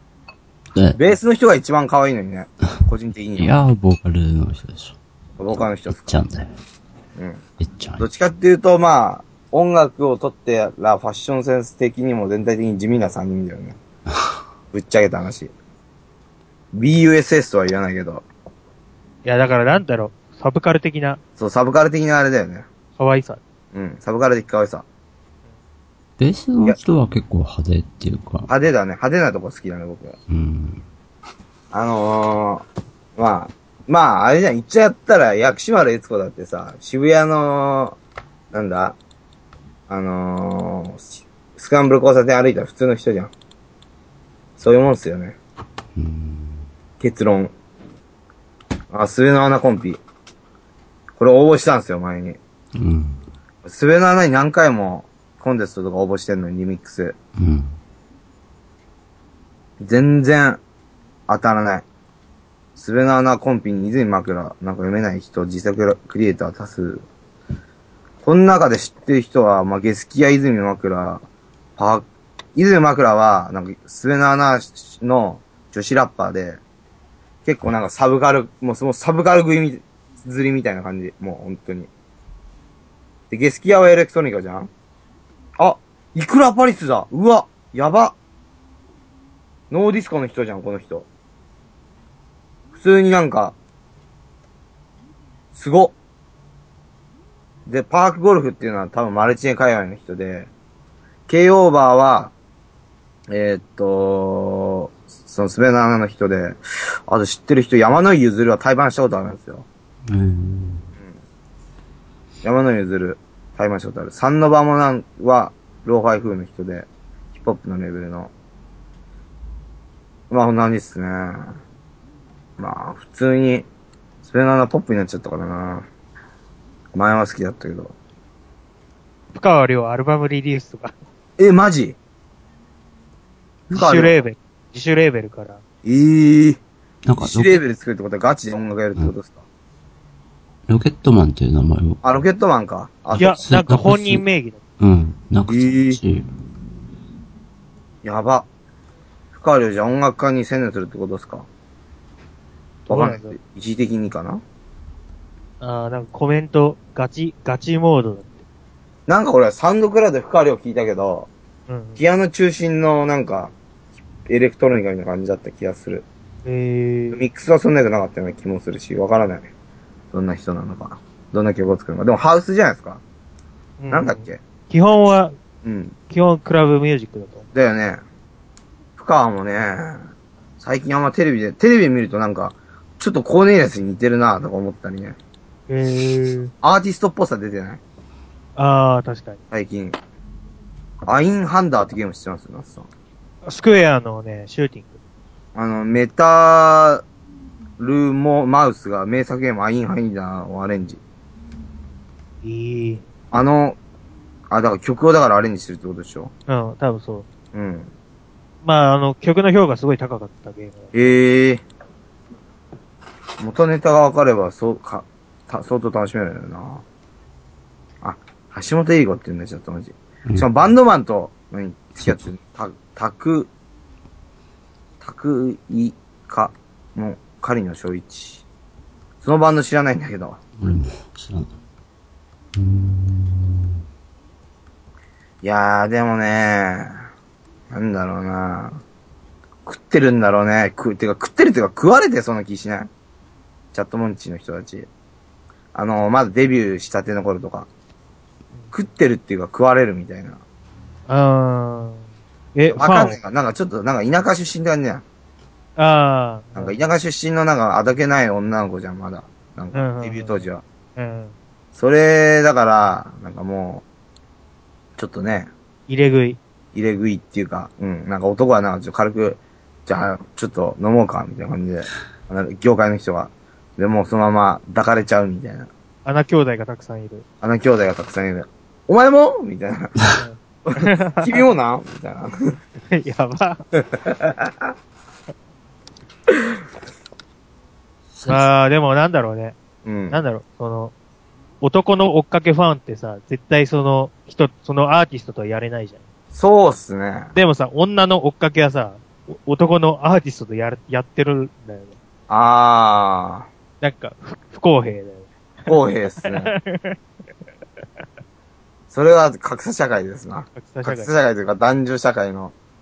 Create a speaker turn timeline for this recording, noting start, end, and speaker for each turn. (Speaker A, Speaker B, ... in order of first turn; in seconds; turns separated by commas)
Speaker A: 0.8-1.0, Speaker B: 1.0-3.5, Speaker A: 3.4-5.0, Speaker B: 5.4-6.2, Speaker A: 5.5-6.5, Speaker B: 7.2-7.4, Speaker A: 7.6-8.1, Speaker B: 8.0-13.8, Speaker B: 14.7-15.5, Speaker B: 16.7-18.2, Speaker C: 19.2-21.2, Speaker B: 21.4-22.7, Speaker C: 23.0-23.4, Speaker B: 23.7-24.9, Speaker A: 26.2-28.5, Speaker B: 28.5-30.2, Speaker A: 30.3-30.8, Speaker B: 31.7-32.6, Speaker B: 33.2-38.0, Speaker B: 38.5-39.0, Speaker B: 39.9-43.3, Speaker B: 44.6-45.4, Speaker A: 46.0-46.6, Speaker B: 47.0-47.5, Speaker B: 48.9-50.0, Speaker B: 51.2-52.4, Speaker A: 52.8-53.2, Speaker B: 53.6-57.2, Speaker A: 57.4-57.8, Speaker B: 59.8-60.6, Speaker B: 61.3-61.8, Speaker B: 62.8-67.1, Speaker B: 68.2-71.2, Speaker B: 71.8-76.6, Speaker B: 77.5-81.9, Speaker B: 83.3-84.7, Speaker B: 85.6-88.2, Speaker B: 89.7-91.1, Speaker B: 92.7-93.5, Speaker B: 95.5-96.0, Speaker B: 97.7-100.5, Speaker B: 101.3-102.3, Speaker B: 103.3-109.7, Speaker A: 110.1-110.9, Speaker B: 112.4-118.3, Speaker B: 120.3-121.6, Speaker B: 122.6-123.7, Speaker B: 124.2-125.9, Speaker B: 126.9-127.9, Speaker C: 129.3-130.9, Speaker B: 131.4-132.0, Speaker B: 133.7-134.1, Speaker C: 133.7-135.6, Speaker B: 135.8-136.6, Speaker A: 137.1-137.6, Speaker B: 137.2-139.4, Speaker A: 140.7-142.1, Speaker B: 142.0-143.4, Speaker A: 143.2-144.2, Speaker C: 143.2-144.6, Speaker A: 144.8-146.3, Speaker B: 145.5-146.0, Speaker B: 148.0-148.5, Speaker B: 149.3-151.5, Speaker B: 152.9-154.4, Speaker C: 152.9-153.4, Speaker C: 155.6-158.4, Speaker B: 159.1-161.3, Speaker C: 161.7-162.0, Speaker B: 162.0-163.5, Speaker B: 164.3-166.1, Speaker C: 166.4-167.2, Speaker B: 167.1-169.5, Speaker B: 170.1-173.0, Speaker C: 173.8-175.3, Speaker B: 173.9-174.4, Speaker B: 175.6-175.9, Speaker C: 176.1-177.5, Speaker B: 177.5-178.0, Speaker B: 179.0-180.1, Speaker B: 180.6-185.2, Speaker C: 185.7-186.5, Speaker B: 186.6-187.8, Speaker C: 188.6-189.4, Speaker B: 189.5-190.0, Speaker B: 191.1-192.9, Speaker C: 193.4-195.0, Speaker B: 195.6-197.0, Speaker B: 197.8-201.0, Speaker C: 202.4-203.0, Speaker B: 203.3-203.8, Speaker B: 204.5-206.3, Speaker C: 206.5-207.3, Speaker B: 207.5-207.9, Speaker C: 208.6-211.2, Speaker B: 210.9-211.6, Speaker B: 213.4-216.8, Speaker B: 218.0-223.5, Speaker B: 225.0-228.4, Speaker B: 229.2-230.4, Speaker A: 230.6-231.5, Speaker A: 232.6-233.8, Speaker B: 235.4-237.0, Speaker B: 237.7-238.8, Speaker B: 239.7-242.9, Speaker B: 243.7-244.9, Speaker B: 245.7-247.7, Speaker B: 248.7-250.4, Speaker C: 251.1-252.1, Speaker C: 252.6-253.2, Speaker B: 252.7-255.0, Speaker C: 255.8-256.8, Speaker B: 256.6-260.6, Speaker C: 259.7-260.4, Speaker C: 261.0-261.3, Speaker B: 261.8-263.8, Speaker B: 265.0-265.5, Speaker C: 265.9-266.4, Speaker B: 266.7-275.7, Speaker C: 276.1-277.2, Speaker B: 277.4-280.0, Speaker C: 280.2-281.3, Speaker B: 280.6-282.6, Speaker C: 282.8-283.6, Speaker B: 283.8-284.7, Speaker A: 288.1-288.5, Speaker C: 288.3-289.6, Speaker B: 289.9-290.2, Speaker C: 290.1-290.9, Speaker C: 291.6-296.1, Speaker B: 296.3-297.3, Speaker C: 297.3-302.0, Speaker B: 302.3-303.5, Speaker C: 303.8-307.0, Speaker B: 305.7-306.5, Speaker B: 308.9-312.5, Speaker C: 310.6-311.1